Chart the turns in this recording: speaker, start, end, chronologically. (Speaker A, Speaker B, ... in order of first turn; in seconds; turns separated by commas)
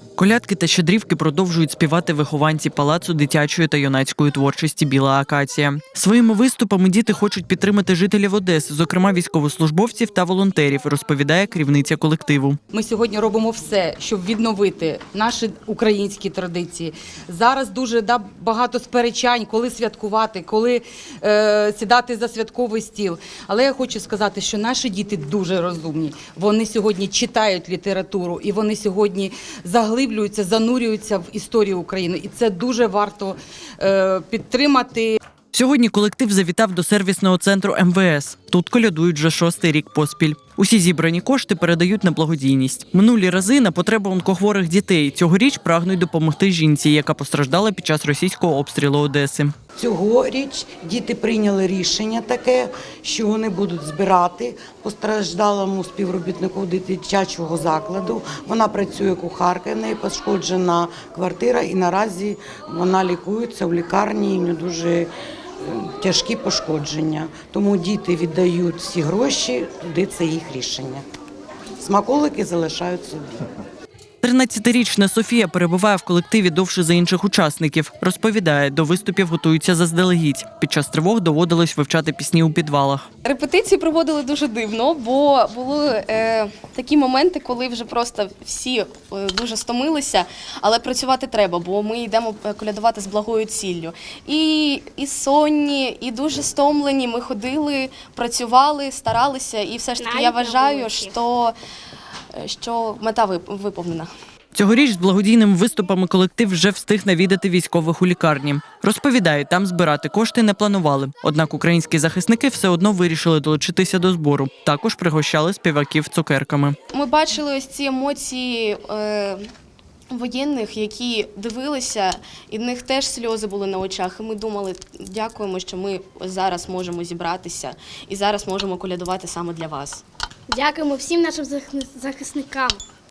Speaker A: 0.2-12.6, Speaker B: 12.7-35.2, Speaker A: 35.5-49.5, Speaker C: 49.8-71.0, Speaker C: 71.8-73.5, Speaker A: 74.2-83.1, Speaker D: 83.2-101.5, Speaker E: 100.0-101.2, Speaker D: 102.3-104.1, Speaker A: 104.5-116.8, Speaker D: 116.9-119.5, Speaker D: 120.1-130.0, Speaker E: 130.5-132.8